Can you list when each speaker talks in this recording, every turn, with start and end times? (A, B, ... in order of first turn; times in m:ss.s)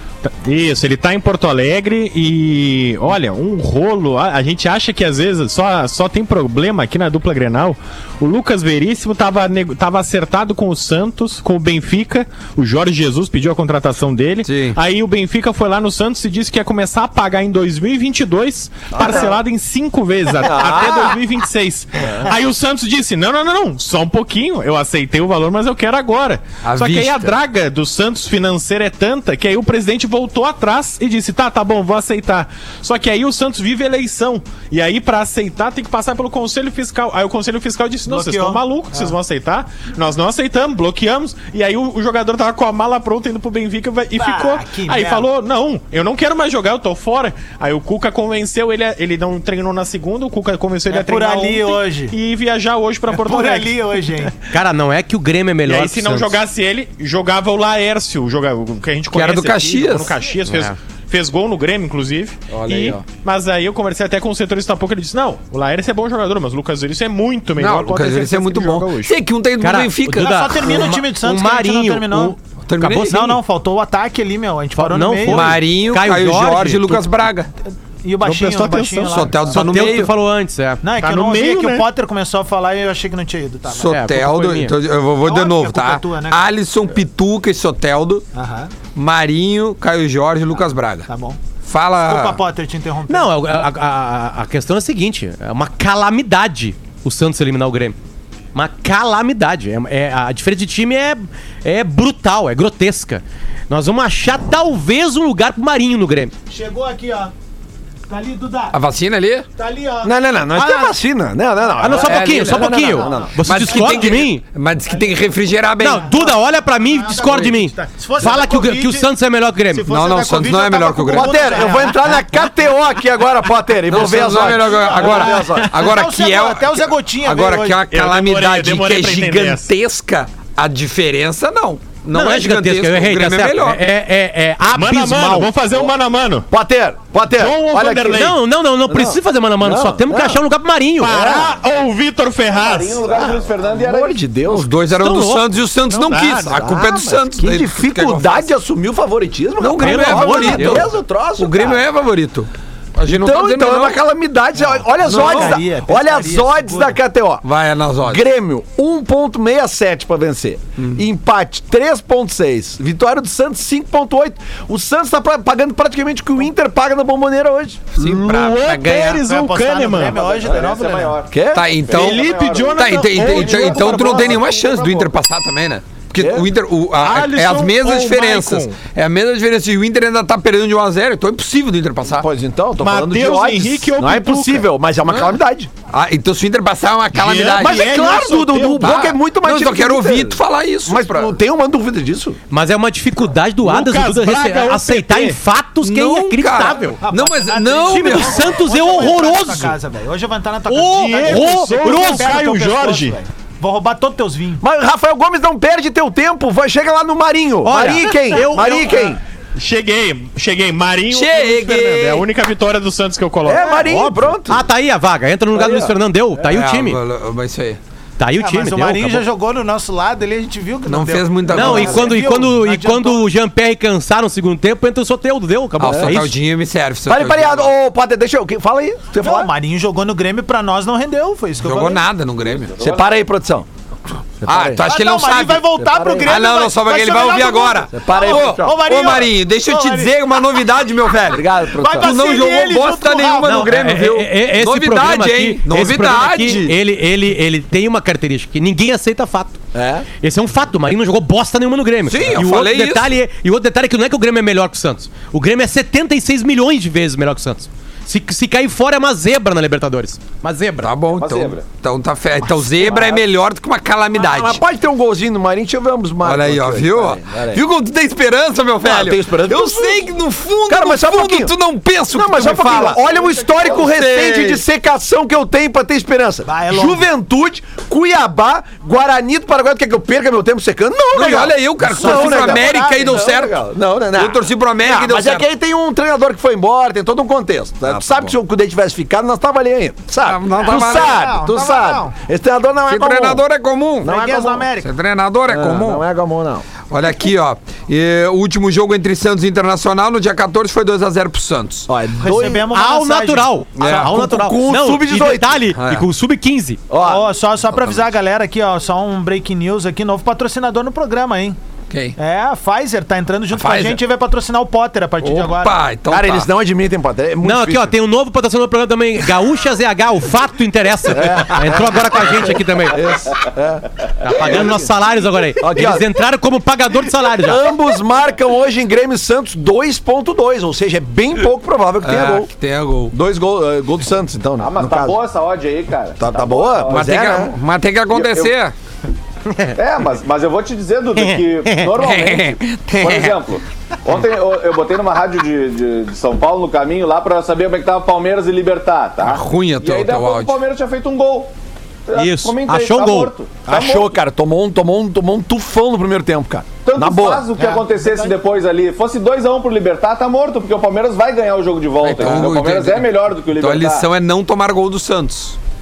0:00.2-0:53.9 A
0:14.4-0:14.8 B
0:18.9-0:19.3 C
0:20.4-0:21.2 C
0:26.6-0:27.3 B
0:38.1-0:39.2 D
0:44.2-0:45.3 D
0:50.9-0:52.2 D
0:53.1-0:54.3 D
0:54.5-0:56.4 E
0:55.7-1:09.2 A
0:59.1-1:00.2 B
1:00.5-1:00.8 E
1:02.5-1:03.0 B
1:07.6-1:10.9 B
1:09.6-1:13.4 E
1:10.1-1:12.4 D
1:12.7-1:13.3 B
1:13.0-1:15.6 D
1:14.8-1:17.0 E
1:15.3-1:17.5 B
1:18.0-1:19.6 D
1:18.2-1:19.2 A
1:19.0-1:20.1 B
1:19.5-1:20.8 E
1:20.8-1:23.9 D
1:21.0-1:21.9 A
1:23.7-1:28.2 B
1:23.9-1:24.7 E
1:25.2-1:26.5 D
1:28.4-1:28.7 D
1:29.0-1:31.1 B
1:31.1-1:31.4 D
1:31.6-1:32.4 B
1:32.0-1:33.3 D
1:33.1-1:38.0 E
1:38.5-1:46.3 E
1:46.5-1:47.3 D
1:48.1-1:48.8 D
1:48.7-1:49.5 B
1:49.6-1:51.0 D
1:50.0-1:53.4 C
1:51.7-1:52.1 D
1:51.8-1:54.4 E
1:52.0-1:52.8 B
1:52.8-1:54.2 D
1:53.4-1:56.1 B
1:54.9-1:55.2 D
1:55.8-1:59.9 E
1:55.8-1:59.1 D
1:59.7-2:02.2 D
1:59.9-2:01.5 B
2:01.1-2:05.7 C
2:03.9-2:13.8 B
2:04.2-2:07.8 D
2:07.9-2:09.7 A
2:12.1-2:15.5 E
2:14.7-2:16.5 A
2:16.5-2:18.4 C
2:17.3-2:18.4 A
2:18.1-2:21.2 E
2:18.9-2:20.4 C
2:21.0-2:23.1 A
2:21.1-2:21.6 C
2:22.5-2:24.2 F
2:23.3-2:24.7 C
2:24.5-2:28.5 B
2:25.0-2:25.4 E
2:25.9-2:26.6 A
2:26.3-2:31.8 C
2:29.6-2:34.0 B
2:29.8-2:30.9 E
2:33.1-2:37.4 C
2:34.6-2:37.0 D
2:35.1-2:35.6 B
2:37.4-2:38.2 B
2:38.0-2:48.0 C
2:40.8-2:41.0 B
2:48.0-2:49.2 B
2:48.0-2:50.2 A
2:49.2-2:51.2 D
2:50.0-2:55.1 F
2:51.3-2:51.8 C
2:51.5-3:02.3 B
2:51.9-2:54.4 A
2:53.2-2:54.4 C
2:56.2-2:56.5 C
2:57.0-2:58.8 A
3:02.1-3:05.7 C
3:02.8-3:04.7 A
3:05.9-3:08.0 B
3:07.1-3:09.0 A
3:07.6-3:12.4 C
3:08.8-3:11.4 B
3:12.5-3:17.0 E
3:13.6-3:15.4 A
3:15.8-3:18.5 B
3:17.0-3:24.6 D
3:17.8-3:19.8 E
3:20.7-3:22.4 E
3:20.8-3:23.2 A
3:24.6-3:29.2 C
3:27.6-3:29.1 E
3:29.6-3:33.8 A
3:31.1-3:32.3 B
3:33.4-3:34.6 C
3:33.7-3:37.0 E
3:35.5-3:36.0 C
3:36.4-3:37.8 B
3:38.2-3:39.2 E
3:38.4-3:43.3 D
3:40.9-3:42.2 B
3:41.5-3:46.3 E
3:41.6-3:41.9 C
3:45.8-3:47.7 B
3:45.8-3:46.2 C
3:47.1-3:49.5 C
3:49.2-3:52.1 D
3:51.6-3:52.8 B
3:52.4-3:53.1 F
3:52.8-3:53.7 C
3:54.4-3:54.9 C
3:54.4-4:06.8 B
3:54.8-4:00.4 D
3:55.8-3:56.4 C
3:57.9-3:58.8 C
4:01.3-4:02.3 C
4:01.7-4:03.7 D
4:03.4-4:09.6 E
4:09.7-4:10.1 C
4:10.2-4:20.9 E
4:12.1-4:13.1 B
4:20.8-4:24.6 B
4:21.1-4:21.6 F
4:22.8-4:23.2 C
4:24.1-4:27.6 C
4:26.2-4:34.6 B
4:28.8-4:30.1 C
4:30.7-4:31.5 C
4:32.1-4:53.4 C
4:36.5-4:37.1 D
4:41.1-4:45.5 B
4:41.8-4:43.2 D
4:47.9-4:48.3 B
4:50.2-4:51.4 B
4:50.6-4:52.1 D
4:52.9-4:54.2 B
4:54.0-4:54.7 C
4:54.0-4:54.9 D
4:54.8-4:56.0 B
4:55.5-4:56.7 C
4:56.9-5:01.9 B
5:01.9-5:02.7 C
5:02.2-5:03.5 D
5:02.7-5:06.8 E
5:03.8-5:04.2 B
5:03.8-5:05.7 C
5:05.8-5:06.1 B
5:06.9-5:07.3 C
5:07.0-5:11.6 D
5:07.7-5:08.0 B
5:11.9-5:12.2 B
5:12.2-5:15.8 D
5:13.5-5:14.0 B
5:15.2-5:16.5 B
5:16.1-5:17.9 C
5:17.4-5:23.0 E
5:21.1-5:24.9 C
5:24.2-5:27.6 E
5:25.6-5:26.1 C
5:27.4-5:32.5 C
5:32.0-5:33.2 B
5:33.1-5:35.2 C
5:34.6-5:37.1 F
5:36.2-5:37.6 C
5:36.9-5:38.7 B
5:38.1-5:38.5 F
5:39.5-5:39.8 E
5:39.7-5:51.5 F
5:41.2-5:41.9 E
5:41.9-5:43.4 B
5:49.2-5:50.6 B
5:52.1-5:54.1 F
5:52.2-5:53.3 E
5:53.7-5:57.5 C
5:56.8-6:04.1 F
6:02.0-6:05.6 B